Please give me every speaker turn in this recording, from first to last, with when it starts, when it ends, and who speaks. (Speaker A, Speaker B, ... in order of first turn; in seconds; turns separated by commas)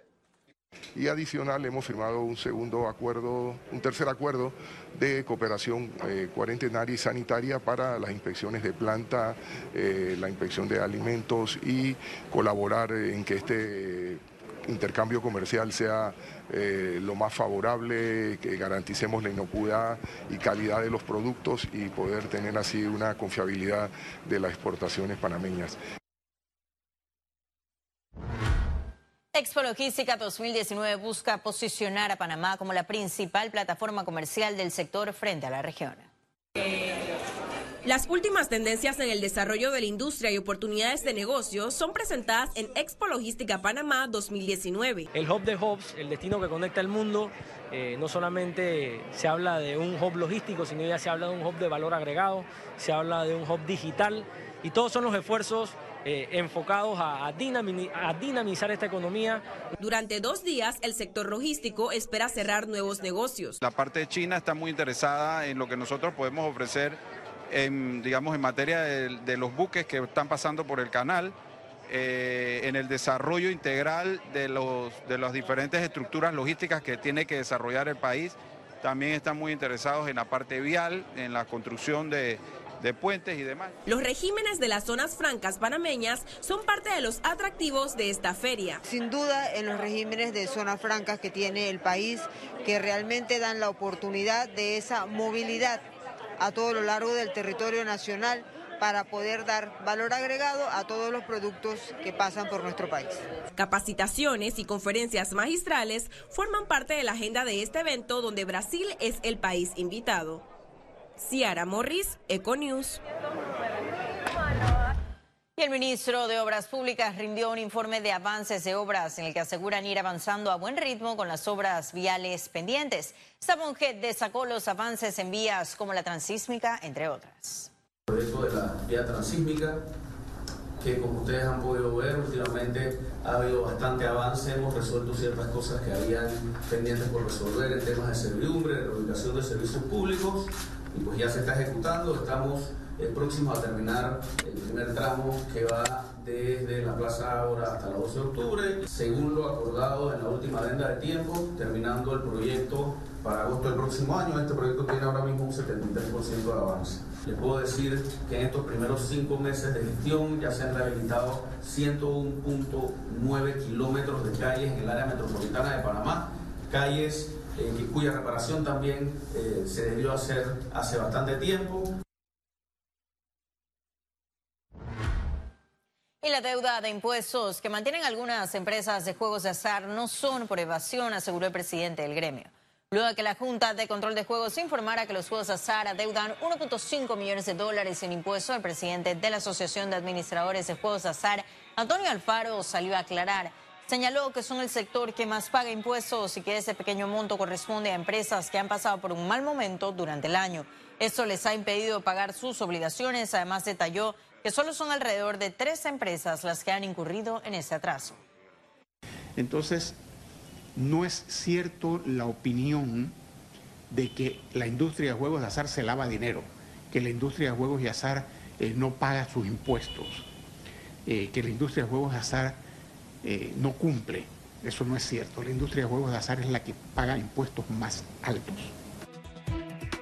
Speaker A: 0.9-25.8, Speaker B: 29.3-36.1, Speaker C: 37.9-45.1, Speaker D: 45.1-59.4, Speaker C: 59.8-63.6, Speaker E: 63.6-67.0, Speaker E: 67.5-71.3, Speaker E: 71.9-83.7, Speaker C: 83.9-88.8, Speaker F: 88.9-95.8, Speaker F: 96.4-103.2, Speaker C: 103.6-110.5, Speaker C: 111.2-113.0, Speaker B: 115.6-127.7, Speaker G: 128.1-129.8, Speaker G: 130.8-171.9, Speaker B: 176.2-208.2, Speaker H: 209.4-209.9, Speaker H: 210.8-213.1, Speaker H: 213.9-220.2, Speaker H: 221.1-222.6, Speaker H: 223.2-228.7